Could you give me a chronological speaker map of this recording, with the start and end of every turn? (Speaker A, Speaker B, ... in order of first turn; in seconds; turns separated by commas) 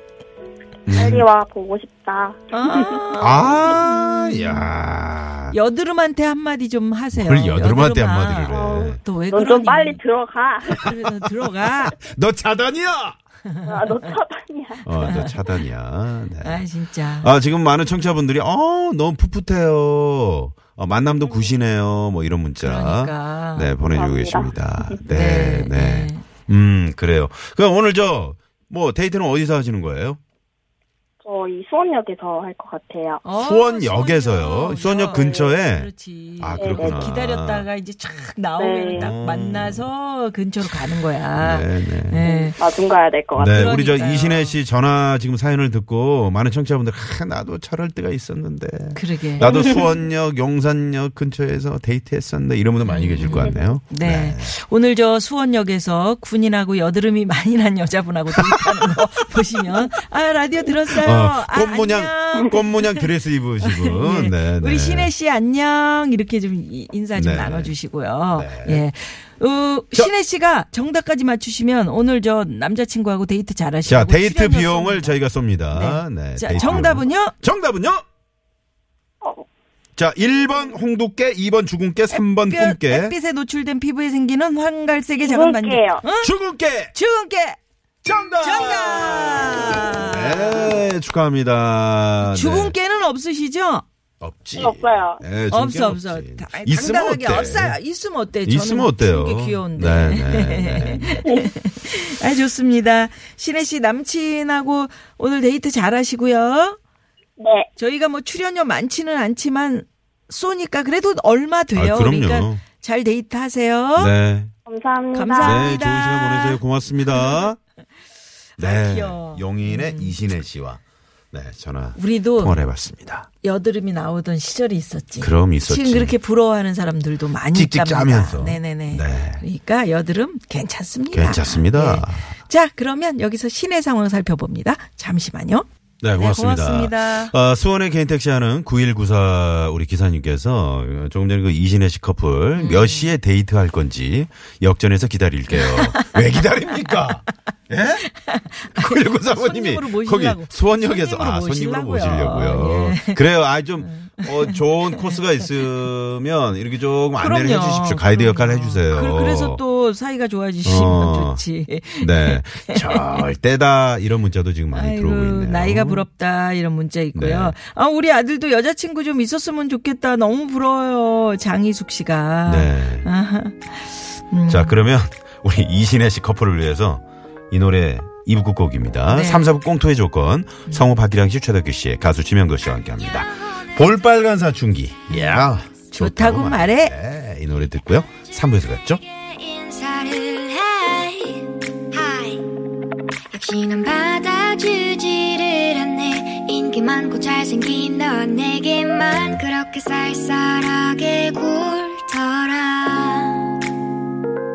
Speaker A: 0.9-1.2, Speaker B: 0.9-3.2, Speaker C: 2.5-4.7, Speaker A: 3.2-5.6, Speaker C: 5.5-10.0, Speaker A: 7.1-9.0, Speaker B: 8.5-10.9, Speaker C: 10.7-12.0, Speaker A: 10.8-13.2, Speaker B: 13.6-15.1, Speaker A: 14.8-30.2, Speaker C: 15.0-15.6, Speaker C: 16.4-17.3, Speaker B: 21.2-21.5, Speaker C: 22.6-23.7, Speaker B: 23.9-25.0, Speaker C: 25.1-26.3, Speaker B: 31.2-33.2, Speaker C: 33.2-42.6, Speaker A: 33.3-37.7, Speaker B: 36.6-37.1, Speaker B: 38.6-39.1, Speaker A: 39.0-39.9, Speaker A: 41.4-42.3, Speaker B: 42.2-43.8, Speaker A: 43.4-54.5, Speaker C: 43.5-44.6, Speaker C: 49.0-49.8, Speaker B: 49.4-49.9, Speaker C: 52.9-63.1, Speaker B: 53.3-53.5, Speaker A: 58.4-59.1, Speaker A: 60.9-65.1, Speaker C: 63.6-75.2, Speaker A: 67.2-67.8, Speaker A: 68.3-68.9, Speaker A: 73.9-78.0, Speaker C: 75.7-77.3, Speaker B: 79.2-79.5, Speaker A: 80.0-83.2, Speaker C: 82.2-86.3, Speaker B: 85.2-86.0, Speaker A: 86.2-86.9, Speaker C: 86.9-87.6, Speaker A: 88.0-92.8, Speaker C: 88.4-90.8, Speaker C: 92.2-93.8, Speaker A: 94.2-97.8, Speaker B: 94.6-95.2, Speaker C: 95.5-106.8, Speaker A: 98.5-101.2, Speaker B: 107.4-107.7, Speaker C: 107.8-114.1, Speaker A: 111.7-112.6, Speaker A: 114.0-114.5, Speaker B: 114.7-115.8, Speaker C: 115.1-117.5, Speaker A: 115.4-117.6, Speaker C: 118.6-120.2, Speaker A: 118.6-120.8, Speaker A: 121.3-123.3, Speaker C: 122.0-122.6, Speaker C: 123.4-137.3, Speaker A: 125.2-126.2, Speaker A: 127.5-129.4, Speaker A: 131.1-132.3, Speaker A: 136.0-148.1, Speaker C: 142.6-143.1, Speaker C: 145.5-146.2, Speaker C: 146.7-147.2, Speaker C: 148.1-153.2, Speaker A: 148.7-159.6, Speaker C: 153.8-155.5, Speaker C: 157.2-163.3, Speaker A: 160.6-161.4, Speaker A: 162.0-166.0, Speaker C: 164.7-174.9, Speaker A: 167.2-167.6, Speaker A: 172.5-173.1, Speaker A: 174.5-189.0, Speaker C: 179.1-179.5, Speaker C: 185.1-186.9, Speaker D: 189.1-192.4, Speaker D: 193.3-203.5